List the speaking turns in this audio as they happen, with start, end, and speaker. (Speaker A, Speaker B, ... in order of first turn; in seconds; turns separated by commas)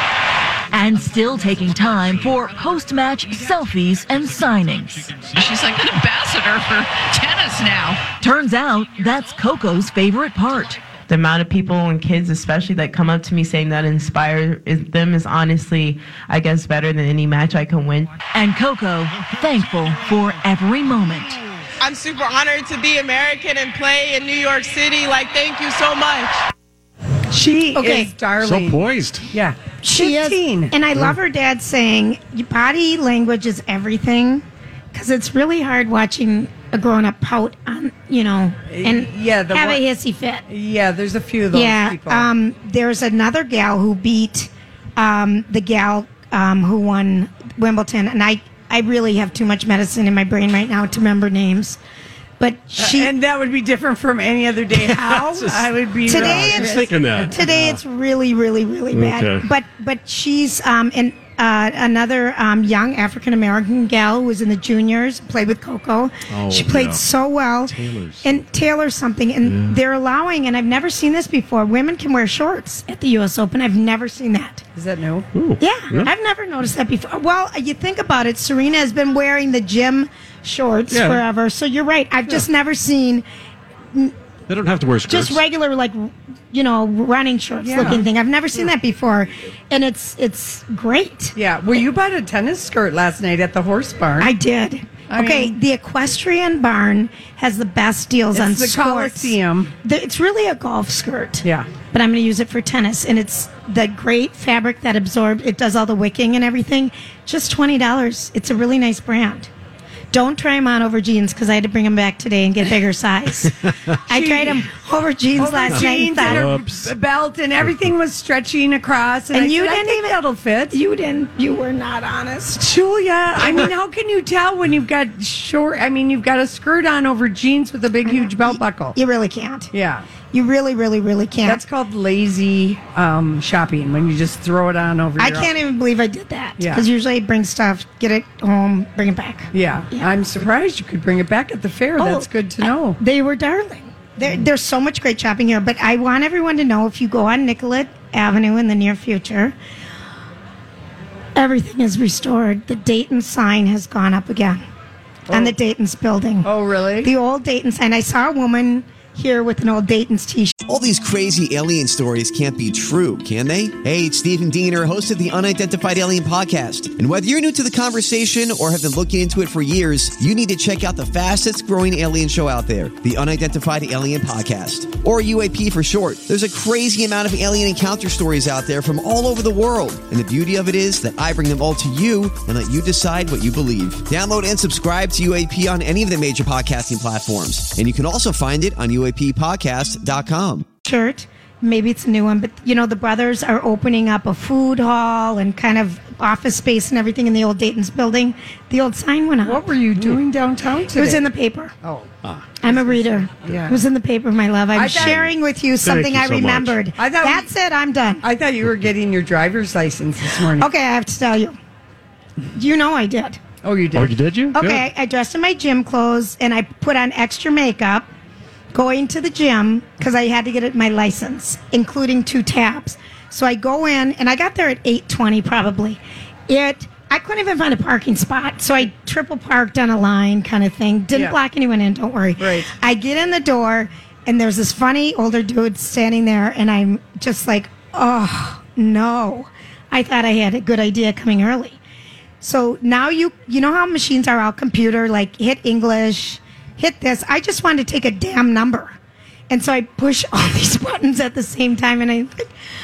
Speaker A: 0.7-5.2, Speaker B: 5.2-8.1, Speaker A: 8.2-10.8, Speaker C: 11.1-18.1, Speaker A: 18.3-21.4, Speaker D: 21.8-26.4, Speaker E: 27.3-30.7, Speaker F: 27.7-28.1, Speaker G: 28.4-29.3, Speaker F: 29.8-40.5, Speaker E: 38.7-39.8, Speaker E: 40.5-42.3, Speaker F: 41.5-51.8, Speaker F: 52.4-53.1, Speaker E: 52.8-57.3, Speaker G: 54.8-57.8, Speaker F: 56.0-74.6, Speaker G: 58.9-59.4, Speaker G: 66.3-67.0, Speaker G: 67.7-68.4, Speaker G: 69.4-69.8, Speaker E: 74.7-75.3, Speaker G: 75.3-76.1, Speaker F: 75.6-83.2, Speaker G: 80.9-81.2, Speaker G: 84.5-85.4, Speaker F: 85.1-91.3, Speaker E: 87.6-88.0, Speaker E: 91.3-94.3, Speaker F: 94.2-109.5, Speaker E: 95.1-95.5, Speaker E: 98.3-99.7, Speaker F: 110.1-116.5, Speaker E: 114.1-114.6, Speaker E: 115.3-120.7, Speaker G: 115.7-116.9, Speaker F: 119.3-120.2, Speaker F: 120.7-122.6, Speaker E: 122.6-128.9, Speaker F: 128.0-129.7, Speaker E: 129.7-130.0, Speaker F: 130.3-131.6, Speaker E: 131.4-135.5, Speaker F: 135.2-140.1, Speaker E: 136.6-136.8, Speaker E: 139.5-143.0, Speaker F: 142.0-149.5, Speaker F: 151.3-154.6, Speaker E: 155.3-155.5, Speaker F: 155.3-156.5, Speaker E: 156.4-157.1, Speaker F: 157.0-160.5, Speaker H: 160.7-190.7, Speaker F: 190.8-199.6, Speaker E: 199.4-201.2, Speaker F: 200.9-201.7, Speaker E: 201.8-202.1, Speaker F: 202.6-208.2, Speaker E: 202.7-203.8, Speaker E: 204.7-205.3, Speaker G: 204.9-205.3, Speaker G: 205.8-206.8, Speaker E: 207.0-207.5, Speaker E: 208.2-210.7, Speaker F: 210.6-211.6, Speaker F: 212.5-213.4, Speaker E: 213.6-214.2, Speaker G: 213.9-214.8, Speaker F: 214.5-218.1, Speaker F: 218.7-241.8, Speaker E: 232.4-232.7, Speaker F: 242.4-249.0, Speaker F: 249.5-252.5